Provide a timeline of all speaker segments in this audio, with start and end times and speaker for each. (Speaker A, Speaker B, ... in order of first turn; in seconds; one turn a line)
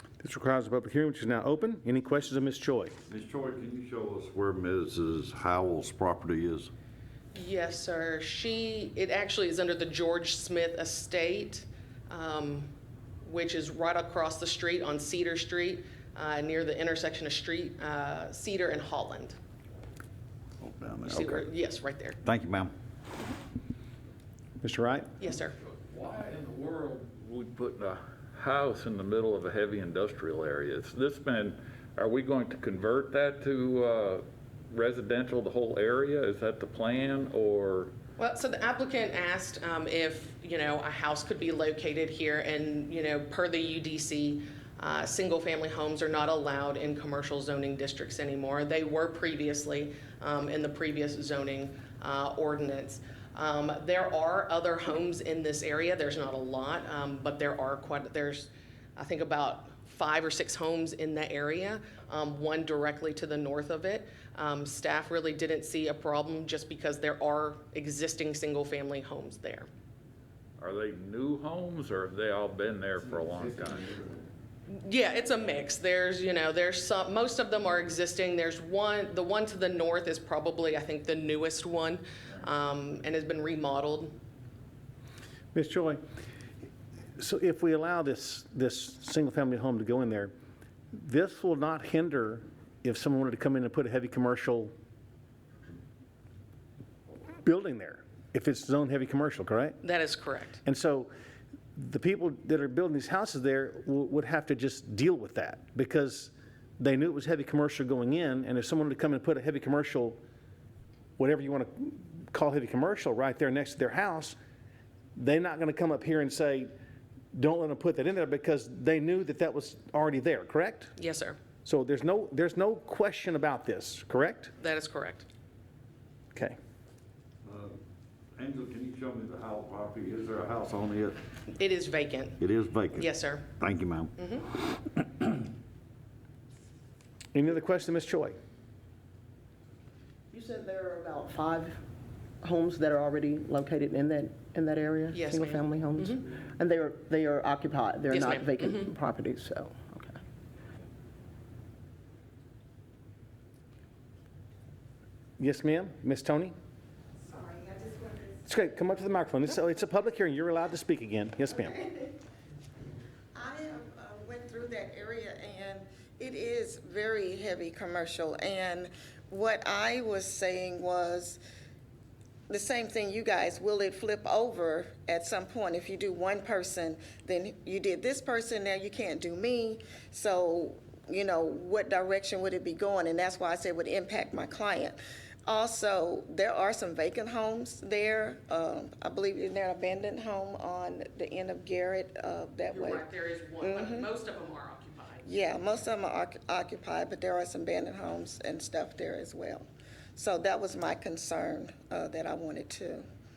Speaker A: 0.2-2.9
Speaker B: 3.1-6.7
Speaker C: 7.3-19.4
Speaker B: 20.6-21.4
Speaker C: 21.0-22.2
Speaker B: 22.2-22.7
Speaker A: 24.6-25.1
Speaker C: 25.2-25.5
Speaker D: 25.6-37.9
Speaker C: 38.2-69.7
Speaker D: 70.6-74.0
Speaker C: 74.7-84.1
Speaker A: 85.5-86.0
Speaker A: 87.2-90.3
Speaker A: 90.9-94.7
Speaker A: 97.4-99.8
Speaker C: 99.8-100.6
Speaker A: 100.6-101.1
Speaker A: 101.8-110.2
Speaker A: 111.2-114.3
Speaker A: 115.2-116.7
Speaker A: 117.3-120.9
Speaker C: 121.0-121.4
Speaker A: 121.6-124.5
Speaker C: 124.6-125.3
Speaker B: 127.4-127.8
Speaker B: 128.3-131.2
Speaker C: 131.5-132.4
Speaker B: 132.4-134.1
Speaker C: 132.9-133.5
Speaker C: 134.2-134.5
Speaker A: 137.3-138.3
Speaker E: 140.3-141.8
Speaker E: 142.4-150.2
Speaker C: 145.1-146.3
Speaker C: 148.1-148.9
Speaker A: 155.4-156.5
Speaker F: 157.2-158.4
Speaker A: 158.4-161.7
Speaker F: 161.6-162.2
Speaker F: 163.3-171.4
Speaker F: 172.5-193.1
Speaker C: 192.7-195.2
Speaker F: 193.6-194.1
Speaker F: 195.2-203.1